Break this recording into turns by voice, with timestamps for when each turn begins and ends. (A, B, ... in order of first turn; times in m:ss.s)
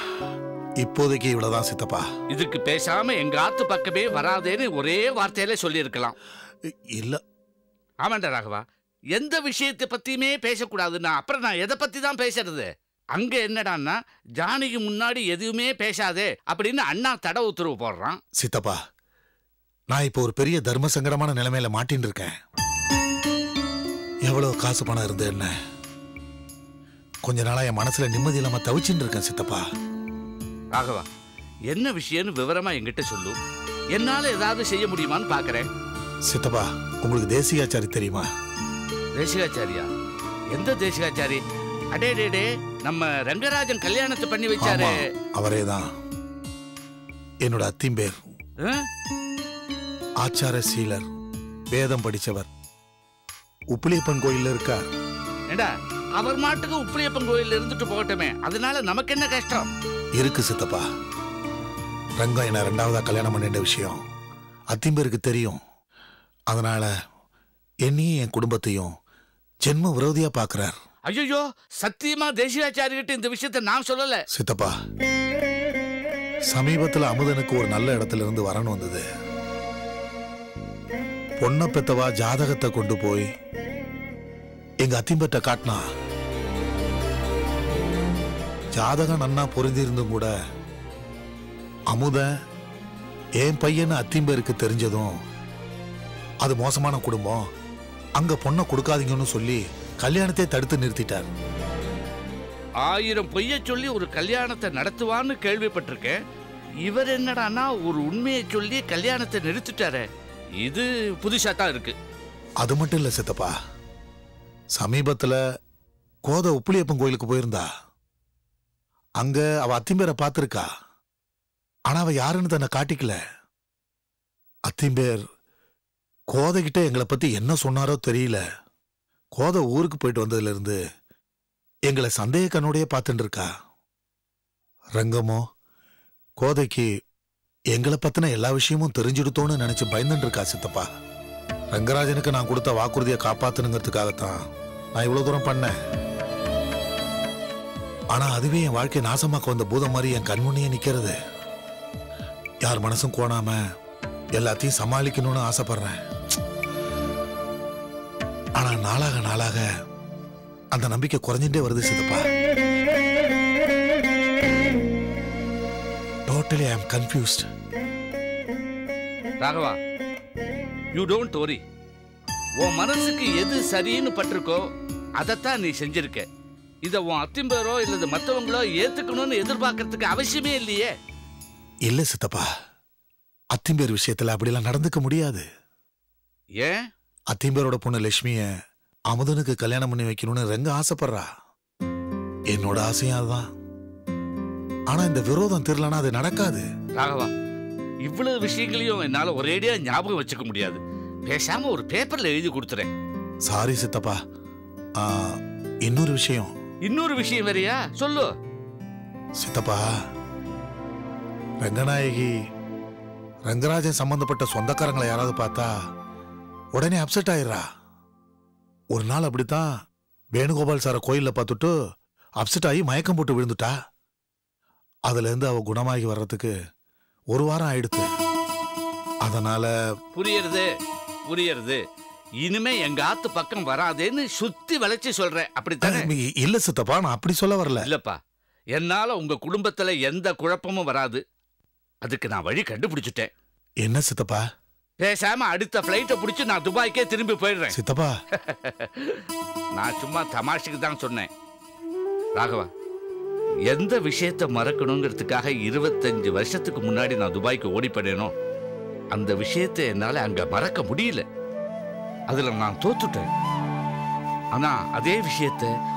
0:00.8-0:02.1 A
0:02.3-0:06.2 B
0:08.0-0:08.6 B
0:09.2-0:18.2 B
0:18.4-0:18.8 A
0:19.9-0:22.3 A
0:24.2-0:25.5 A
0:27.2-0:29.6 A
0:30.7-0:31.1 B
0:31.7-0:33.4 B
0:33.9-0:35.7 B
0:36.3-0:38.3 A
0:39.2-0:39.9 B
0:40.6-0:41.4 B
0:41.9-0:45.0 B
0:44.6-0:45.9 A
0:47.4-0:48.2 A
0:50.2-0:51.1 A
0:51.7-0:52.5 A
0:53.7-0:54.8 A
0:55.5-0:59.7 B
1:00.2-1:00.9 A
1:02.2-1:04.0 A
1:04.7-1:05.6 A
1:06.5-1:06.9 A
1:07.9-1:08.9 A
1:09.6-1:10.7 A
1:11.1-1:14.2 B
1:14.3-1:14.7 A
1:16.5-1:19.0 A
1:21.4-1:23.3 A
1:24.8-1:25.8 A
1:28.8-1:30.3 A
1:31.9-1:32.3 A
1:33.4-1:35.1 A
1:36.4-1:37.4 A
1:38.2-1:41.3 A
1:42.8-1:46.2 B
1:46.8-1:50.1 B
1:50.6-1:52.0 B
1:52.6-1:53.5 A
1:54.8-1:55.4 A
1:56.2-1:57.7 A
1:59.2-2:00.7 A
2:01.9-2:03.2 A
2:04.7-2:05.2 A
2:06.3-2:08.4 A
2:09.3-2:10.8 A
2:11.9-2:13.5 A
2:15.0-2:15.4 A
2:16.4-2:16.9 A
2:17.7-2:20.9 A
2:21.7-2:24.4 A
2:25.0-2:25.7 A
2:28.2-2:31.2 A
2:32.6-2:33.6 A
2:34.4-2:36.0 A
2:38.6-2:39.6 A
2:40.7-2:42.2 A
2:46.3-2:47.5 A
2:49.4-2:49.8 B
2:50.9-2:51.6 B
2:52.6-2:54.6 B
2:55.2-2:56.3 B
2:56.8-3:00.9 B
3:01.9-3:02.5 A
3:03.5-3:05.4 A
3:07.3-3:08.5 A
3:09.1-3:11.3 A
3:12.5-3:13.5 A
3:14.9-3:16.6 A
3:17.0-3:17.3 B
3:18.1-3:22.9 B
3:23.5-3:24.2 A
3:25.0-3:26.5 A
3:26.9-3:28.3 B
3:29.4-3:29.9 A
3:31.6-3:32.3 A
3:33.5-3:35.7 A
3:36.8-3:37.6 A
3:38.9-3:39.7 A
3:40.4-3:41.7 A
3:42.4-3:43.7 A
3:45.1-3:46.5 A
3:47.3-3:48.1 A
3:49.2-3:49.7 A
3:50.1-3:50.7 B
3:51.3-3:51.8 B
3:52.4-3:56.1 B
3:55.8-3:57.8 A
3:57.8-3:58.2 B
3:58.8-4:01.2 B
4:02.0-4:03.3 B
4:03.8-4:04.4 A
4:05.0-4:07.8 B
4:07.7-4:08.1 A
4:08.4-4:09.2 B
4:09.8-4:11.3 B
4:12.4-4:12.7 B
4:13.7-4:18.3 B
4:19.1-4:21.3 B
4:22.3-4:23.3 B
4:24.6-4:25.7 B